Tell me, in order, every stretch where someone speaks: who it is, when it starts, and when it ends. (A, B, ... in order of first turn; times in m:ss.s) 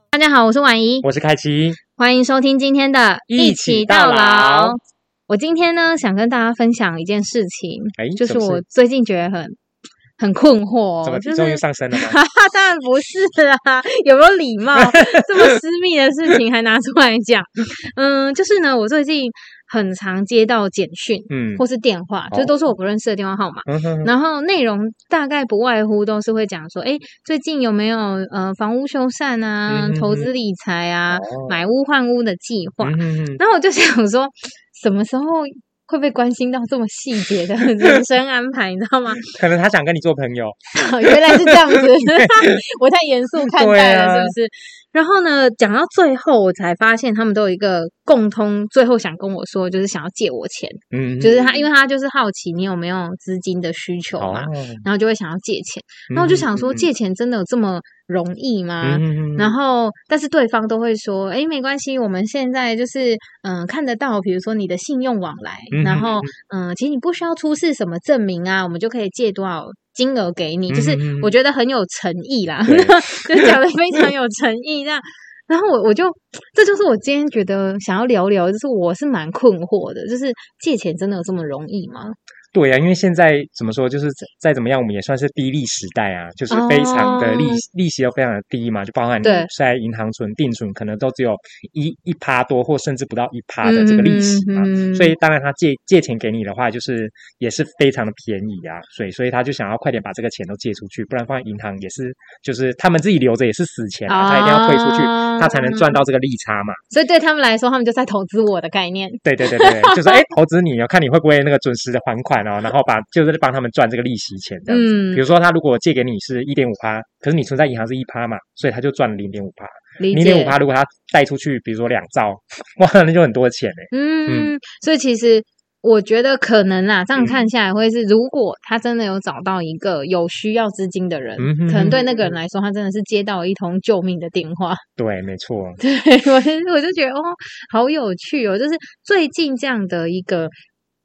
0:00.1-0:01.1 A
0:01.0-0:01.8 B
0:02.0-0:09.6 A
0:03.3-0:04.8 B
0:08.0-0:08.6 B
0:10.2-0:39.3 A
0:11.0-0:12.2 B
0:14.9-0:15.6 B
0:21.3-0:21.6 B
0:23.7-0:24.1 B
0:29.7-0:30.3 B
0:31.1-0:31.6 B
0:32.8-0:33.4 B
0:39.2-0:42.5 B
0:40.8-1:22.2 A
0:43.4-0:44.3 B
0:50.9-0:51.6 B
0:54.2-0:54.8 B
0:56.1-0:56.9 B
0:58.8-0:59.5 B
1:05.7-1:06.3 B
1:10.7-1:11.3 B
1:12.7-1:13.5 B
1:22.5-1:46.8 B
1:26.5-1:27.6 A
1:29.2-1:29.5 A
1:33.6-1:35.1 A
1:44.1-1:46.0 A
1:46.9-1:50.2 A
1:49.2-2:04.5 B
1:54.7-1:55.2 A
2:00.0-2:00.6 A
2:03.9-2:14.8 A
2:11.4-2:12.3 B
2:15.0-2:15.8 B
2:15.8-2:20.5 A